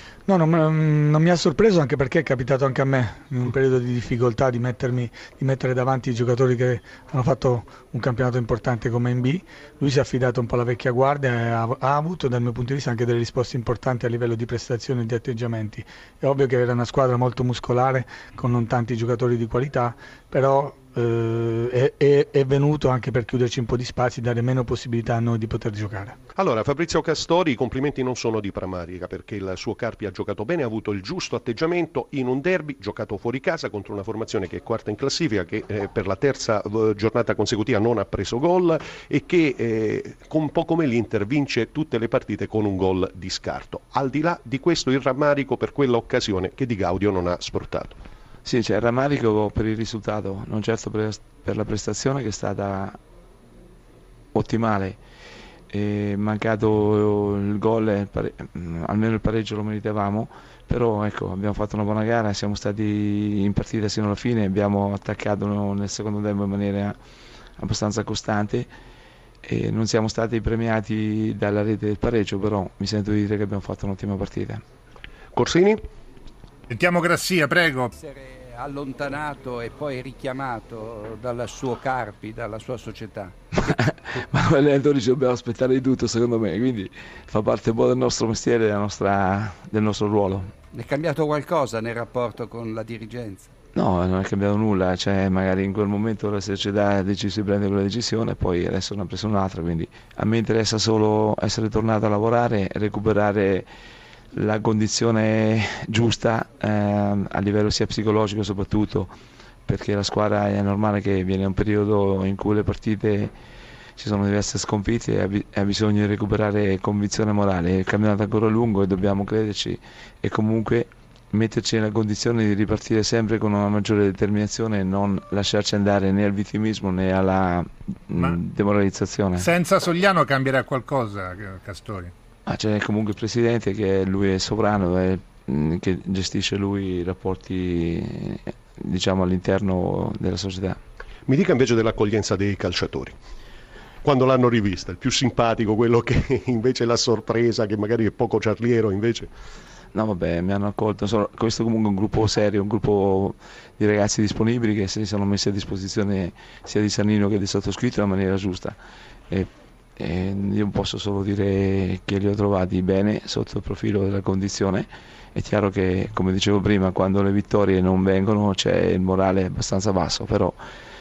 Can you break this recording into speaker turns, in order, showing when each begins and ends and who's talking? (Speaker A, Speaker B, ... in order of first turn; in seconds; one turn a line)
Speaker A: 0.3-26.2
Speaker B: 26.4-48.0
Speaker C: 48.4-53.0
Speaker C: 54.3-55.0
Speaker C: 55.7-67.0
Speaker C: 67.6-68.7
Speaker C: 69.4-74.6
Speaker B: 75.3-75.8
Speaker D: 76.7-77.9
Speaker E: 78.0-83.3
Speaker C: 83.6-90.5
Speaker E: 90.7-93.5
Speaker C: 93.7-103.7
Speaker C: 104.3-109.1
Speaker C: 109.7-113.3
Speaker C: 114.0-129.5
Speaker D: 129.4-132.1
Speaker C: 132.5-140.8
Speaker B: 141.3-143.2
Speaker B: 144.0-149.3
Speaker C: 149.9-158.8
Speaker C: 159.3-170.6